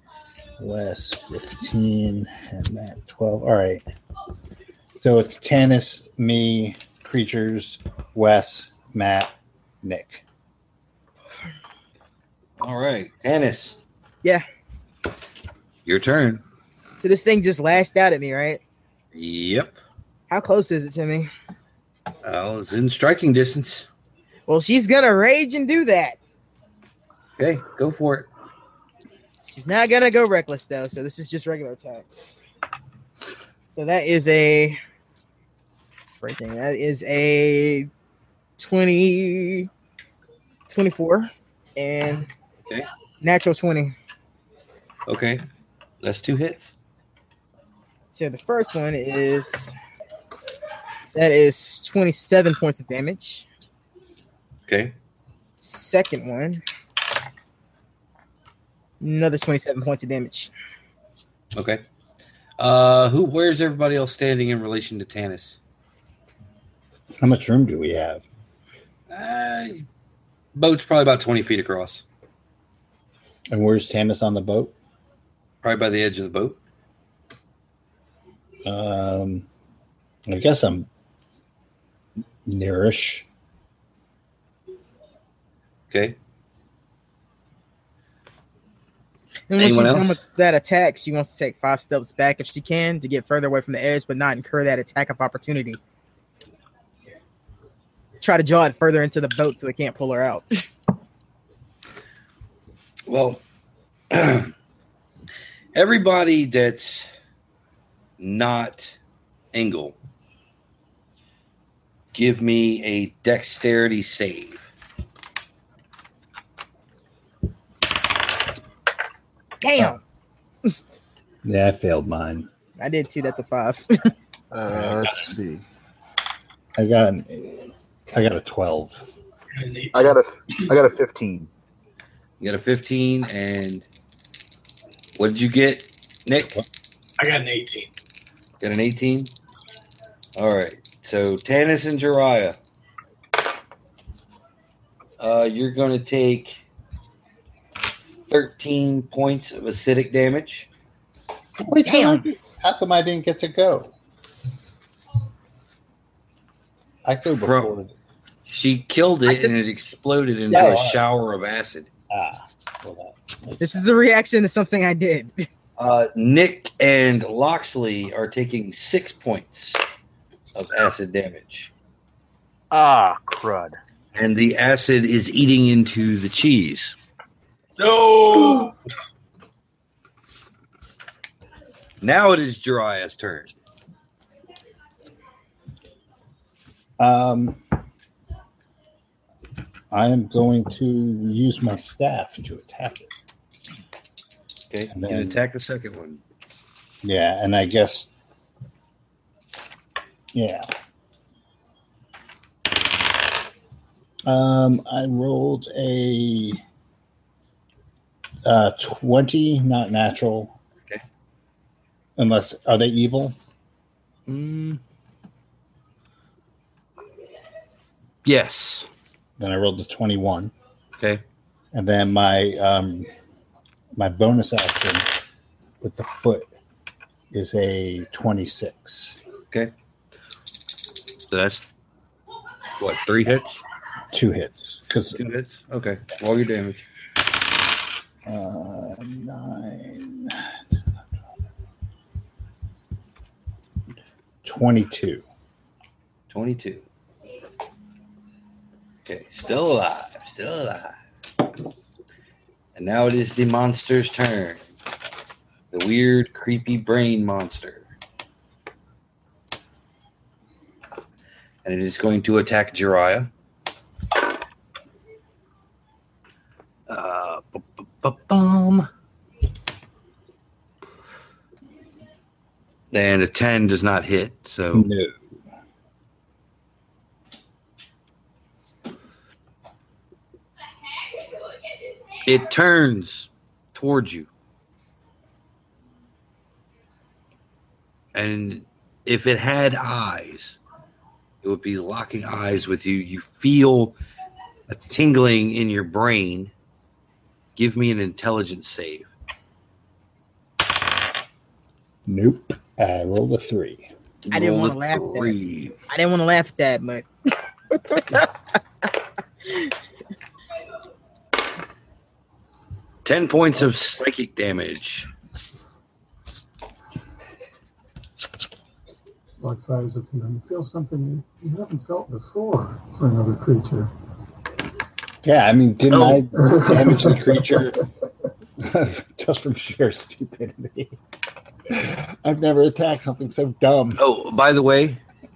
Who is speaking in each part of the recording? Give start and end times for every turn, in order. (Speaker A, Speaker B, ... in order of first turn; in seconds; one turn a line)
Speaker A: 0.6-3.8
Speaker A: 5.0-10.2
Speaker B: 12.6-13.8
Speaker B: 15.9-16.4
Speaker C: 17.0-18.6
Speaker B: 19.1-19.8
Speaker C: 20.3-21.3
Speaker B: 22.2-23.9
Speaker C: 24.5-26.2
Speaker B: 27.4-28.3
Speaker C: 29.4-32.4
Speaker C: 33.7-34.8
Speaker C: 36.2-37.9
Speaker C: 38.6-39.7
Speaker C: 40.7-42.3
Speaker C: 43.2-44.0
Speaker B: 45.1-45.4
Speaker B: 46.0-46.7
Speaker C: 48.1-49.8
Speaker C: 51.1-53.5
Speaker B: 54.7-55.0
Speaker C: 55.6-56.6
Speaker C: 59.0-60.5
Speaker B: 61.5-61.8
Speaker B: 62.6-65.6
Speaker A: 67.2-68.2
Speaker B: 69.1-69.8
Speaker B: 70.5-72.0
Speaker A: 73.5-74.7
Speaker B: 75.6-76.6
Speaker A: 78.7-79.5
Speaker A: 80.3-80.9
Speaker A: 82.5-83.3
Speaker B: 85.9-86.2
Speaker C: 89.5-95.8
Speaker B: 89.6-90.2
Speaker C: 98.2-100.6
Speaker B: 103.1-103.4
Speaker B: 104.1-104.5
Speaker B: 105.8-107.1
Speaker B: 108.2-109.0
Speaker B: 109.5-110.0
Speaker B: 112.1-114.7
Speaker C: 119.6-120.0
Speaker A: 121.4-122.5
Speaker C: 122.8-124.1
Speaker D: 124.5-125.6
Speaker A: 124.7-125.3
Speaker A: 126.8-129.0
Speaker E: 129.6-130.2
Speaker D: 129.9-131.5
Speaker B: 132.4-133.8
Speaker B: 135.2-136.6
Speaker E: 137.2-137.9
Speaker B: 138.6-139.3
Speaker B: 140.4-142.6
Speaker B: 145.2-146.6
Speaker B: 148.2-150.7
Speaker A: 151.6-153.9
Speaker C: 151.8-152.2
Speaker A: 157.1-157.9
Speaker B: 157.3-157.8
Speaker B: 158.5-161.9
Speaker C: 159.3-159.6
Speaker A: 160.5-161.0
Speaker A: 162.1-163.8
Speaker C: 163.6-165.5
Speaker B: 165.8-169.8
Speaker B: 170.6-171.7
Speaker D: 172.7-173.8
Speaker B: 174.1-177.0
Speaker E: 177.8-178.8
Speaker B: 182.0-183.5
Speaker A: 187.0-187.6
Speaker A: 189.9-193.1
Speaker B: 194.7-196.2
Speaker A: 194.9-195.4
Speaker A: 197.0-198.1
Speaker A: 200.3-200.7
Speaker A: 204.2-206.6
Speaker A: 208.4-210.6
Speaker A: 212.2-213.4
Speaker B: 214.3-214.8
Speaker B: 218.2-218.9
Speaker A: 219.4-220.5
Speaker A: 221.7-223.1
Speaker A: 224.0-225.1
Speaker A: 225.8-226.5
Speaker A: 227.3-229.2
Speaker B: 231.3-231.7
Speaker B: 232.8-233.6
Speaker A: 234.1-235.2
Speaker B: 235.2-236.8
Speaker A: 238.2-240.6
Speaker A: 244.4-245.2
Speaker B: 246.3-246.8
Speaker B: 249.1-250.9
Speaker B: 252.8-254.6
Speaker B: 255.7-257.9
Speaker B: 261.6-263.3
Speaker B: 266.9-268.9
Speaker B: 272.9-274.9
Speaker A: 274.7-275.2
Speaker B: 282.2-284.3
Speaker B: 288.1-290.6
Speaker B: 291.4-294.0
Speaker B: 294.7-296.5
Speaker B: 297.6-299.1
Speaker A: 302.1-303.9
Speaker B: 304.3-305.8
Speaker C: 304.3-305.3
Speaker C: 305.9-307.1
Speaker C: 307.7-308.3
Speaker B: 313.1-315.1
Speaker F: 319.4-323.9
Speaker A: 325.2-327.8
Speaker B: 325.9-326.2
Speaker F: 326.4-327.6
Speaker A: 328.6-331.0
Speaker A: 331.7-334.0
Speaker B: 334.0-335.0